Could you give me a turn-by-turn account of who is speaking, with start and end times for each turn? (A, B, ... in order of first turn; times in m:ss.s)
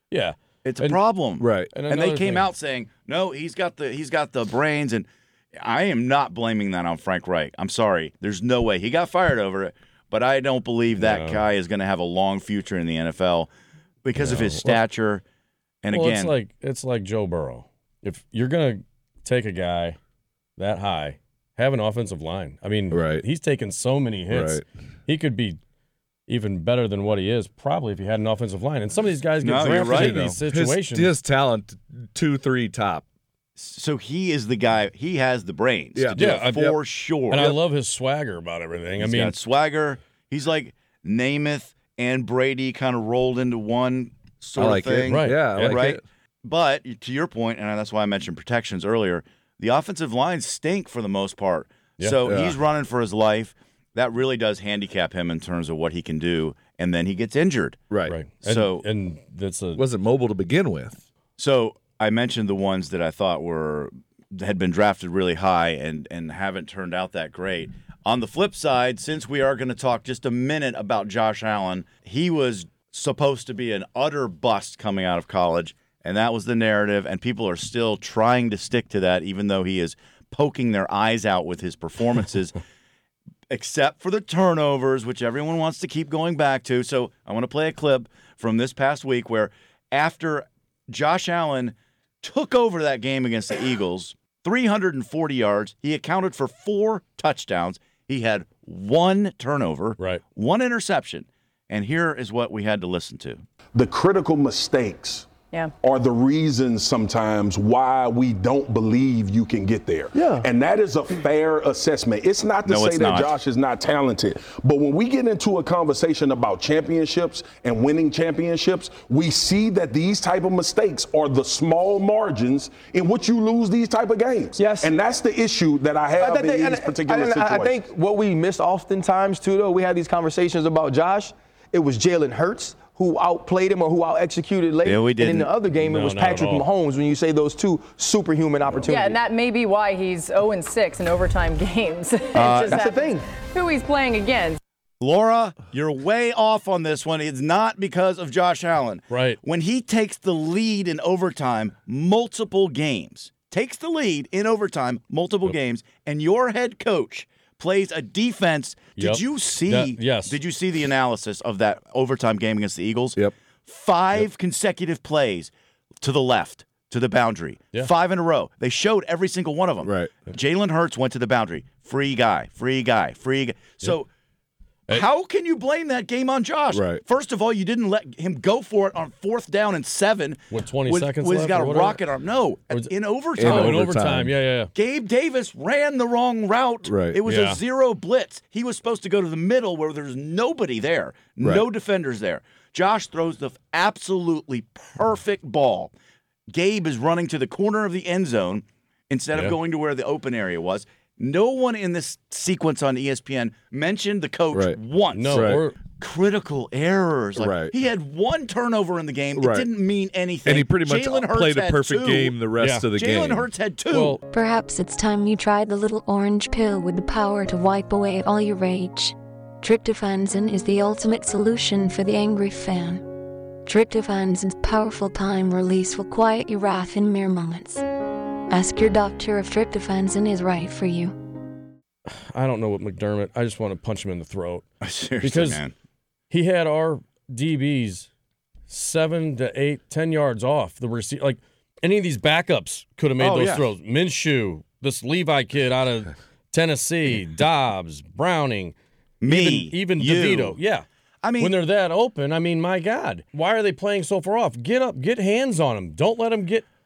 0:00.1-0:01.0 A
0:00.6-0:13.5 B
0:01.4-0:01.7 C
0:01.7-0:02.5 A
0:11.0-0:11.4 A
0:14.0-0:15.2 B
0:14.2-0:14.8 A
0:15.8-0:16.3 B
0:15.9-0:20.0 A
0:20.6-0:25.6 A
0:22.9-0:23.2 C
0:24.3-0:24.6 C
0:26.3-0:31.1 A
0:29.4-0:30.2 B
0:29.6-0:33.0 C
0:33.6-0:37.6 B
0:35.9-0:36.8 C
0:36.2-0:36.7 A
0:37.3-0:39.3 A
0:39.0-0:57.8 B
0:44.6-0:46.0 C
0:45.1-0:45.8 A
0:52.2-0:52.6 C
0:57.9-0:58.1 C
0:58.1-0:59.8 A
0:58.4-0:58.8 B
0:59.8-1:01.0 C
1:01.4-1:22.6 B
1:23.5-1:43.4 B
1:43.8-1:45.3 D
1:45.8-2:07.8 D
1:50.1-1:50.4 E
1:52.6-1:53.3 B
2:04.6-2:04.9 E
2:06.2-2:19.2 E
2:14.8-2:15.5 B
2:15.8-2:16.6 A
2:18.9-2:24.6 F
2:22.4-2:22.8 B
2:22.4-2:23.2 E
2:25.0-2:45.5 B
2:29.1-2:29.4 A
2:39.0-2:40.4 A
2:46.0-2:54.1 B
2:49.8-2:50.1 C
2:54.9-3:03.8 B
2:56.7-2:57.0 C
3:00.5-3:02.0 A
3:02.7-3:04.7 A
3:03.4-3:04.3 C
3:04.8-3:15.9 B
3:06.9-3:07.2 C
3:07.3-3:07.6 A
3:16.5-3:32.4 B
3:24.5-3:24.8 C
3:25.1-3:25.8 A
3:25.3-3:25.6 C
3:27.4-3:27.7 C
3:29.4-3:29.7 C
3:30.4-3:33.5 C
3:32.6-3:32.9 A
3:32.9-3:34.2 B
3:33.9-3:34.2 A
3:34.3-3:43.0 G
3:43.6-3:47.8 G
3:48.5-3:51.1 G
3:52.1-3:54.6 A
3:54.8-3:55.7 B
3:55.2-3:55.6 A
3:56.3-3:58.1 A
3:58.7-4:10.8 A
4:03.2-4:03.6 B
4:09.2-4:10.6 B
4:11.2-4:11.5 B
4:11.4-4:16.6 A